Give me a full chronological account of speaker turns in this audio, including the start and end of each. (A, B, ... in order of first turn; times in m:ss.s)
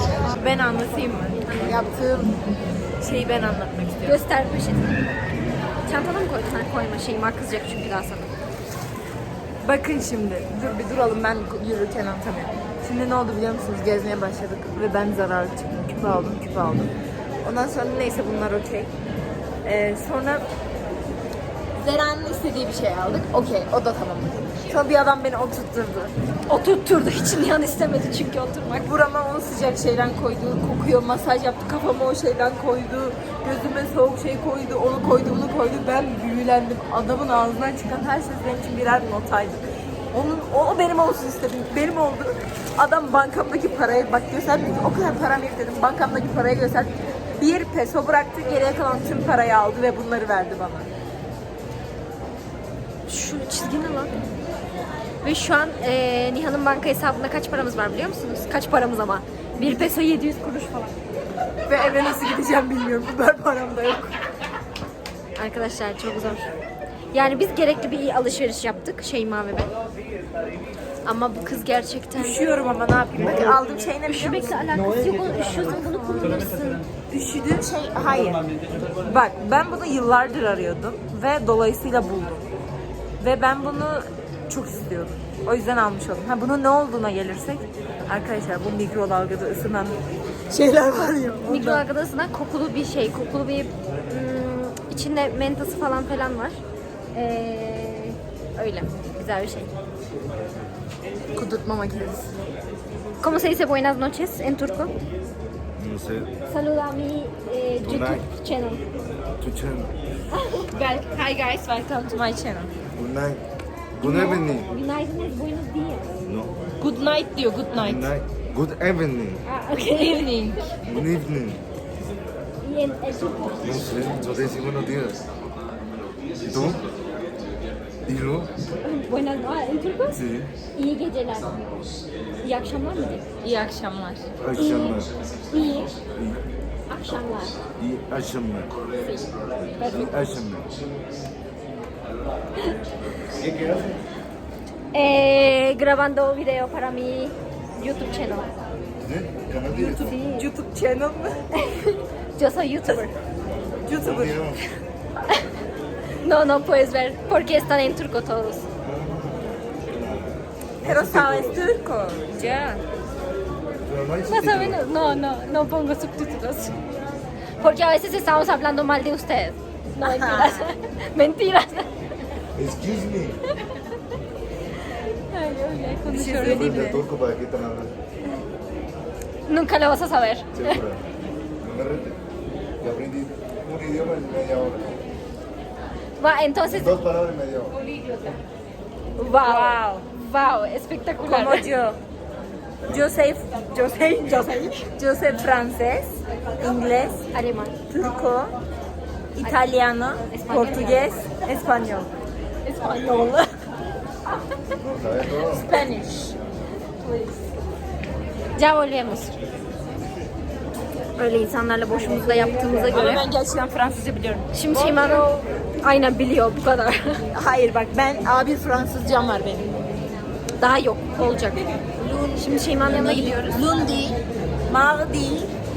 0:00.2-0:02.4 A
0:01.5-0:01.8 B
0:03.0-0:04.2 A
0:04.0-0:05.1 B
0:05.9-0:08.3 B
0:09.6-0:16.9 A
0:17.4-0:18.9 A
0:19.6-0:20.4 A
0:21.8-0:26.1 A
0:26.5-0:28.9 B
0:28.8-0:50.9 A
0:53.1-0:54.1 B
0:55.2-1:01.0 B
1:01.7-1:04.2 A
1:05.4-1:06.5 B
1:07.1-1:09.7 B
1:11.0-1:12.4 B
1:12.2-1:14.6 A
1:14.1-1:16.8 B
1:17.1-1:18.4 A
1:19.0-1:22.4 A
1:23.2-1:30.0 A
1:30.5-1:31.8 A
1:31.4-1:36.6 B
1:37.1-1:39.7 B
1:41.4-1:42.3 A
1:43.2-1:44.9 B
1:45.8-1:46.3 C
1:46.5-1:48.8 B
1:47.8-1:48.2 C
1:49.4-1:49.9 C
1:50.4-1:50.6 B
1:50.7-1:52.7 A
1:53.0-1:53.4 C
1:54.0-1:54.7 C
1:54.0-1:56.2 B
1:56.2-1:56.5 C
1:56.8-1:58.1 A
1:57.7-1:59.4 C
1:59.4-2:00.5 B
1:59.9-2:00.7 A
2:00.8-2:01.6 C
2:02.6-2:04.2 B
2:03.6-2:05.2 C
2:06.4-2:06.8 C
2:08.1-2:08.5 C
2:08.8-2:10.2 B
2:10.1-2:10.5 C
2:10.8-2:11.7 B
2:12.4-2:13.3 B
2:13.4-2:14.3 A
2:14.4-2:15.1 C
2:14.6-2:15.0 B
2:15.5-2:15.9 B
2:16.1-2:16.4 C
2:16.9-2:17.6 B
2:17.8-2:18.7 C
2:19.0-2:20.2 B
2:19.8-2:20.8 C
2:23.3-2:24.0 C
2:24.9-2:28.5 B
2:29.0-2:30.2 C
2:29.7-2:30.5 B
2:30.2-2:31.4 A
2:31.6-2:33.1 B
2:33.8-2:34.5 A
2:33.9-2:34.6 C
2:36.2-2:38.7 B
2:38.8-2:41.7 C
2:40.8-2:42.8 A
2:43.8-2:44.8 C
2:44.3-2:46.8 B
2:47.6-2:51.9 B
2:50.0-2:50.7 A
2:52.6-2:53.4 C
2:55.3-2:56.8 B
2:56.1-2:57.0 A
2:56.4-2:57.9 C
2:59.5-3:00.8 B
3:00.6-3:01.0 C
3:01.6-3:02.2 C
3:02.8-3:05.0 C
3:06.2-3:07.0 B
3:06.7-3:07.8 C
3:07.8-3:08.4 A
3:09.2-3:11.7 B
3:09.4-3:10.0 A
3:11.2-3:12.0 A
3:12.9-3:17.3 A
3:17.3-3:17.8 B
3:17.9-3:18.6 A
3:19.4-3:22.1 A
3:19.4-3:19.7 B
3:20.2-3:21.4 B
3:22.7-3:23.3 B
3:22.8-3:23.4 A
3:24.8-3:25.7 C
3:25.4-3:26.4 A
3:27.0-3:27.4 A
3:28.6-3:29.3 B
3:31.2-3:33.2 B
3:32.9-3:35.5 A
3:34.5-3:35.3 B
3:35.8-3:37.2 B
3:37.3-3:39.7 A
3:40.6-3:41.6 B
3:41.2-3:45.5 A
3:42.4-3:43.6 B